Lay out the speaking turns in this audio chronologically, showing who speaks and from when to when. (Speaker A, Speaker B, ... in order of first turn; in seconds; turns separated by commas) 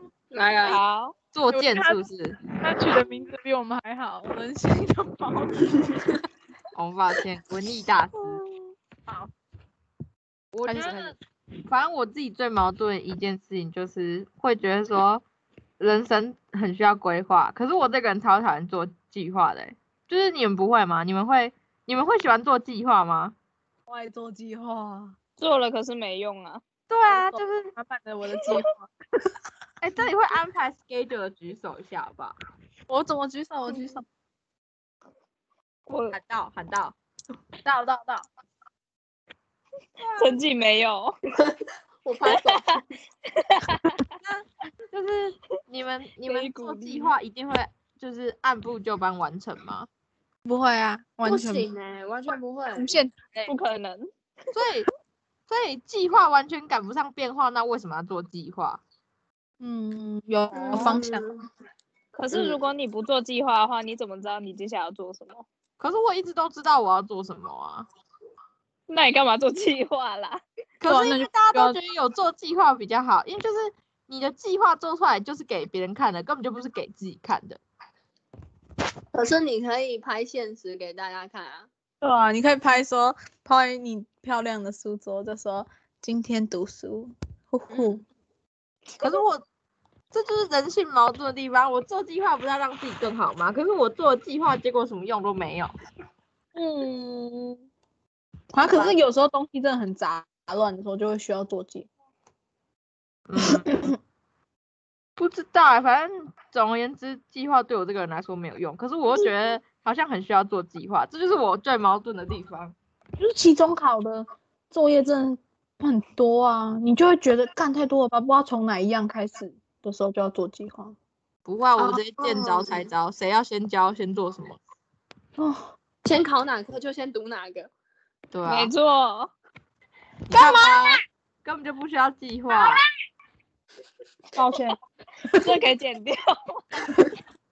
Speaker A: 0.3-0.8, Speaker B: 0.7-1.1, Speaker C: 1.3-2.4, Speaker D: 1.5-2.0, Speaker D: 2.6-5.9, Speaker C: 6.7-8.4, Speaker C: 10.5-11.2, Speaker D: 10.7-11.2, Speaker C: 11.7-15.2, Speaker C: 15.8-23.4, Speaker D: 23.9-25.2, Speaker B: 25.4-26.6, Speaker C: 26.9-27.7, Speaker D: 27.1-28.9, Speaker C: 29.8-32.4, Speaker D: 32.9-34.0, Speaker B: 35.9-36.2, Speaker C: 36.1-37.0, Speaker D: 37.6-38.2, Speaker C: 40.0-40.4, Speaker B: 40.2-41.1, Speaker A: 41.4-42.8, Speaker B: 43.5-43.8, Speaker C: 44.2-49.9, Speaker B: 46.2-47.1, Speaker D: 50.5-51.7, Speaker A: 51.2-53.0, Speaker D: 52.7-53.6, Speaker B: 53.5-54.1, Speaker C: 54.5-54.9, Speaker C: 55.5-58.8, Speaker D: 59.6-61.2, Speaker A: 60.5-61.4, Speaker B: 62.1-65.5, Speaker C: 65.8-67.9, Speaker B: 68.9-70.4, Speaker C: 70.8-77.6, Speaker D: 70.9-71.8, Speaker A: 79.1-81.7, Speaker D: 82.0-88.0, Speaker A: 87.7-88.0, Speaker C: 89.0-89.4, Speaker C: 90.1-95.7, Speaker D: 96.5-97.6, Speaker D: 98.5-101.9, Speaker C: 103.3-103.8, Speaker C: 105.2-112.8, Speaker D: 113.2-121.0, Speaker C: 121.5-124.6, Speaker A: 121.8-122.9, Speaker D: 125.4-125.7, Speaker A: 126.0-127.7, Speaker C: 128.3-128.7, Speaker B: 128.5-129.3, Speaker D: 130.3-131.0, Speaker C: 130.3-132.8, Speaker D: 134.3-134.8, Speaker B: 135.4-136.9